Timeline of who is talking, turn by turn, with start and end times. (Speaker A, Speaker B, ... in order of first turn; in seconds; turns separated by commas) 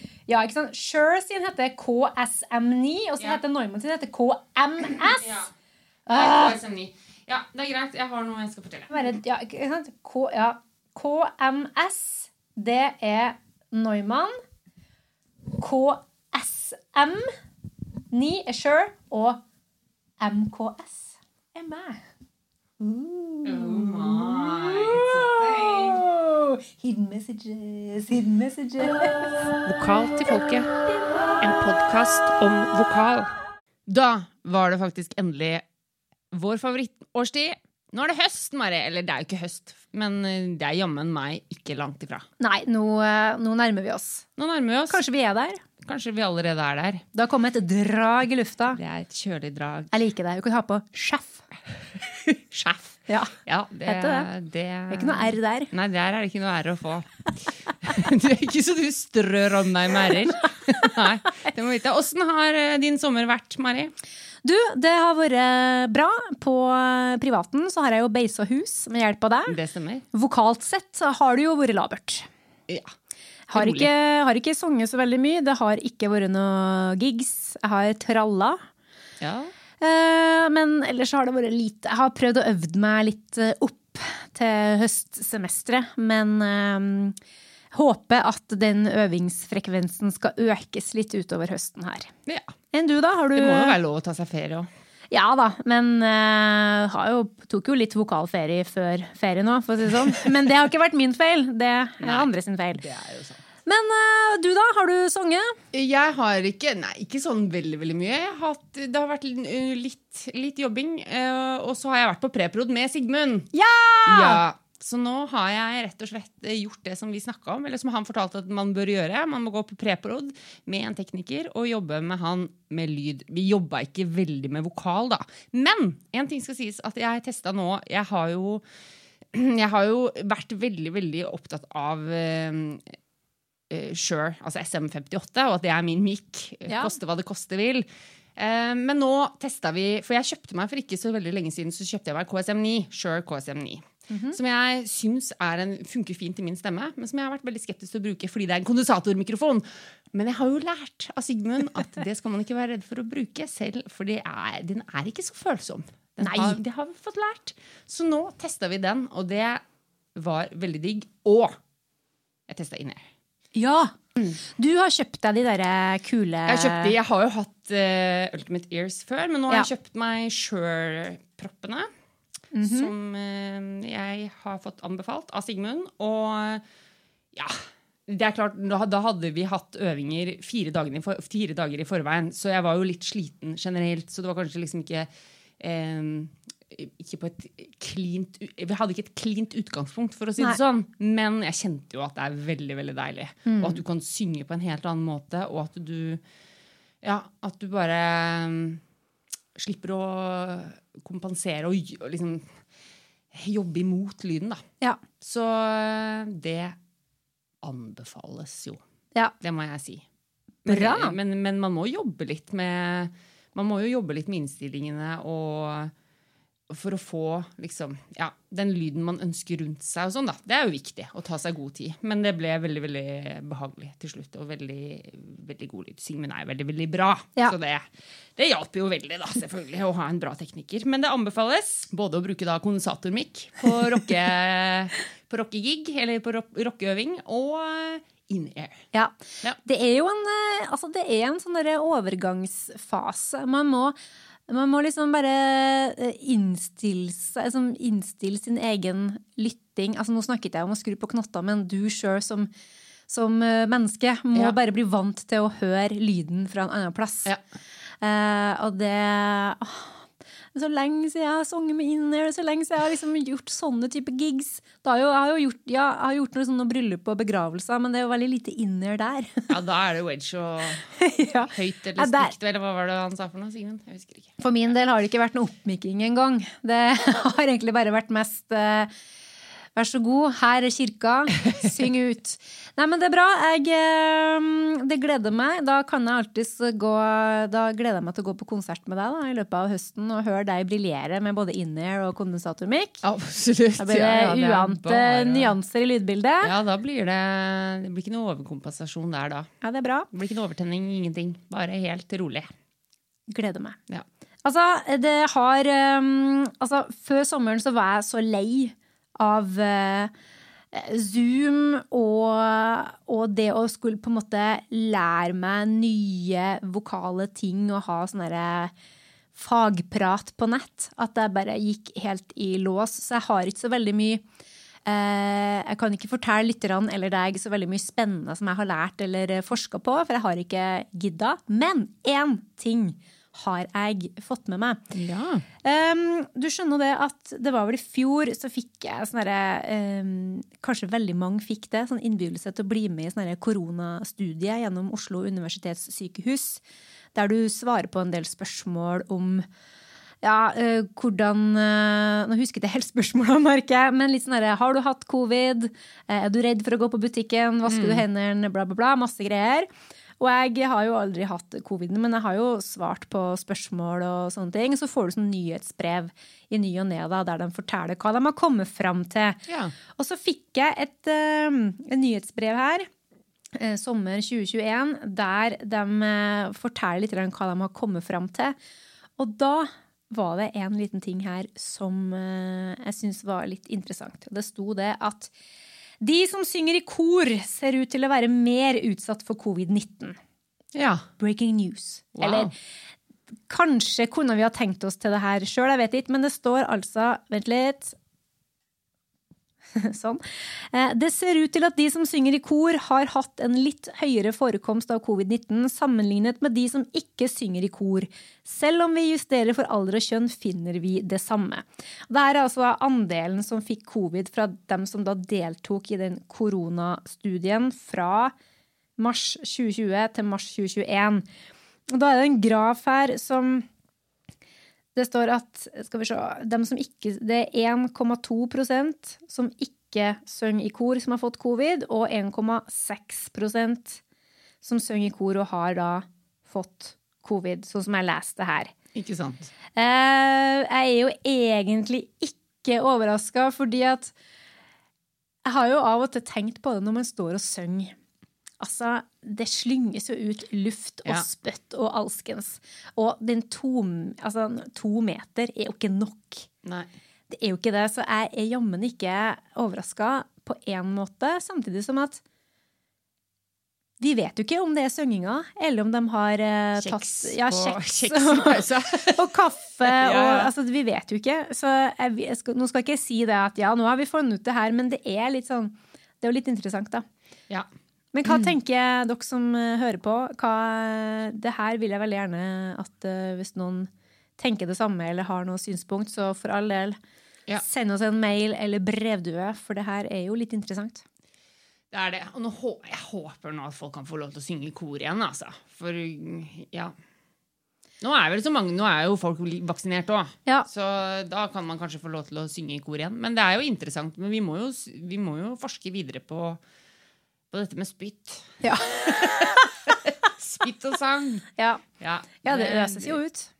Speaker A: 0.3-5.4, Speaker B: 4.9-5.5, Speaker A: 6.1-6.6, Speaker B: 6.1-8.9, Speaker A: 8.9-14.3, Speaker A: 15.6-17.3, Speaker A: 18.1-19.4, Speaker A: 20.2-22.0, Speaker A: 22.8-29.3, Speaker B: 23.4-26.0, Speaker B: 29.6-30.7, Speaker B: 31.4-33.3, Speaker B: 33.9-35.6, Speaker B: 36.3-42.3, Speaker A: 42.4-44.2, Speaker B: 44.4-45.0, Speaker A: 44.9-45.6, Speaker B: 45.8-47.0, Speaker A: 47.1-48.8, Speaker B: 48.7-49.9, Speaker A: 49.9-51.5, Speaker B: 52.5-63.9, Speaker A: 53.9-54.3, Speaker A: 54.9-55.7, Speaker A: 64.4-69.5, Speaker B: 69.5-70.0, Speaker A: 70.1-72.3, Speaker A: 73.5-78.6, Speaker B: 73.5-73.9, Speaker B: 79.2-79.5, Speaker A: 79.8-87.2, Speaker A: 87.7-92.1, Speaker B: 92.2-92.5, Speaker A: 92.7-93.8, Speaker B: 93.3-94.7, Speaker A: 95.1-102.8, Speaker B: 102.0-103.4, Speaker A: 103.7-105.6, Speaker B: 105.7-113.5, Speaker A: 113.5-114.4, Speaker B: 114.0-128.6, Speaker B: 129.3-132.9, Speaker B: 133.7-159.6, Speaker A: 136.7-137.0, Speaker A: 144.1-144.3, Speaker A: 156.2-156.6, Speaker B: 160.2-161.6, Speaker B: 162.5-163.1, Speaker A: 163.5-166.9, Speaker B: 166.4-171.9, Speaker A: 172.5-172.9, Speaker B: 172.6-176.6, Speaker B: 177.3-185.1, Speaker B: 185.6-196.2, Speaker A: 193.4-193.8, Speaker B: 197.0-198.8, Speaker B: 199.6-202.5, Speaker B: 203.3-204.6, Speaker B: 205.2-206.8, Speaker B: 207.6-208.8, Speaker B: 209.4-210.0, Speaker B: 210.6-215.9, Speaker A: 210.7-211.1, Speaker B: 216.7-238.8, Speaker A: 239.6-244.0, Speaker A: 244.5-252.5, Speaker A: 253.1-257.3, Speaker A: 258.0-260.0, Speaker A: 260.5-269.5, Speaker B: 269.5-270.9, Speaker A: 270.9-272.3, Speaker B: 271.5-274.4, Speaker A: 274.4-278.9, Speaker A: 279.8-293.0, Speaker B: 293.0-295.5, Speaker A: 293.8-296.5, Speaker B: 296.4-299.5, Speaker A: 299.6-300.1, Speaker B: 300.1-302.5, Speaker A: 303.3-303.8, Speaker A: 304.4-310.1, Speaker A: 310.7-318.7, Speaker A: 319.3-324.2, Speaker A: 324.8-334.8, Speaker B: 334.9-335.4, Speaker A: 335.6-346.6, Speaker A: 347.1-349.5, Speaker A: 350.2-369.4, Speaker B: 357.7-358.0, Speaker B: 369.5-369.7, Speaker A: 369.9-372.9, Speaker A: 373.5-378.6, Speaker A: 379.2-385.3, Speaker A: 386.0-390.2, Speaker B: 390.7-391.0, Speaker A: 391.2-392.5, Speaker B: 392.1-392.5, Speaker A: 393.5-397.9, Speaker A: 399.7-418.3, Speaker A: 419.0-421.2, Speaker A: 421.9-423.6, Speaker A: 424.9-434.0, Speaker A: 434.6-438.7, Speaker B: 438.9-439.5, Speaker A: 439.8-444.1, Speaker A: 445.4-447.9, Speaker A: 448.6-456.5, Speaker B: 456.6-456.9, Speaker A: 457.3-462.2, Speaker A: 464.0-477.1, Speaker B: 466.8-469.2, Speaker B: 469.8-470.5, Speaker A: 478.1-487.0, Speaker A: 487.6-491.0, Speaker B: 491.9-496.9, Speaker B: 498.0-506.6, Speaker B: 507.5-511.4, Speaker A: 511.6-511.8, Speaker B: 512.0-513.2, Speaker A: 512.4-513.5